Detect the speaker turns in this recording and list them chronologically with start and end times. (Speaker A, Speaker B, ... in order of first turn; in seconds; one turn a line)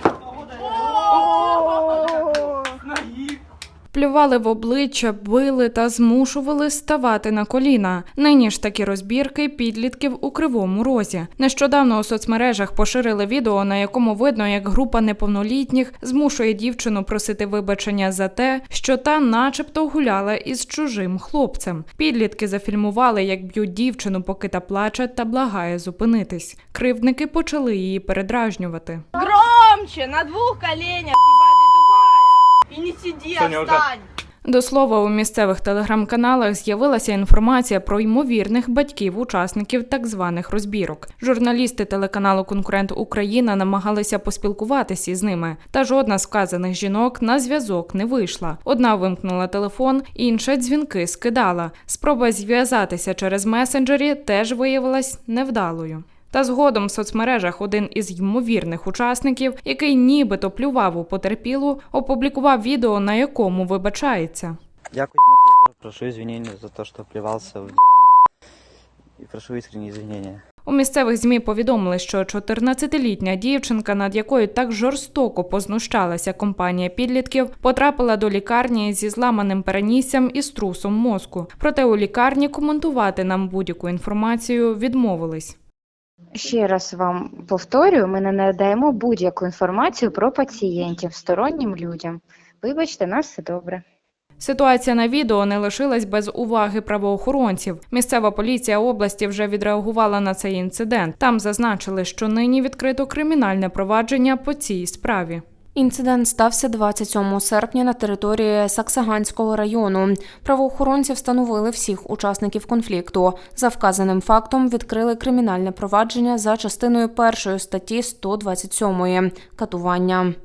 Speaker A: 1.0-2.7
Speaker B: 3.9-29.1
Speaker A: 29.2-34.1
Speaker C: 33.5-33.8
Speaker B: 34.5-64.6
Speaker C: 64.9-68.1
Speaker C: 69.2-70.4
Speaker B: 70.7-85.6
Speaker D: 86.3-93.8
Speaker B: 94.4-105.4
Speaker E: 105.8-120.3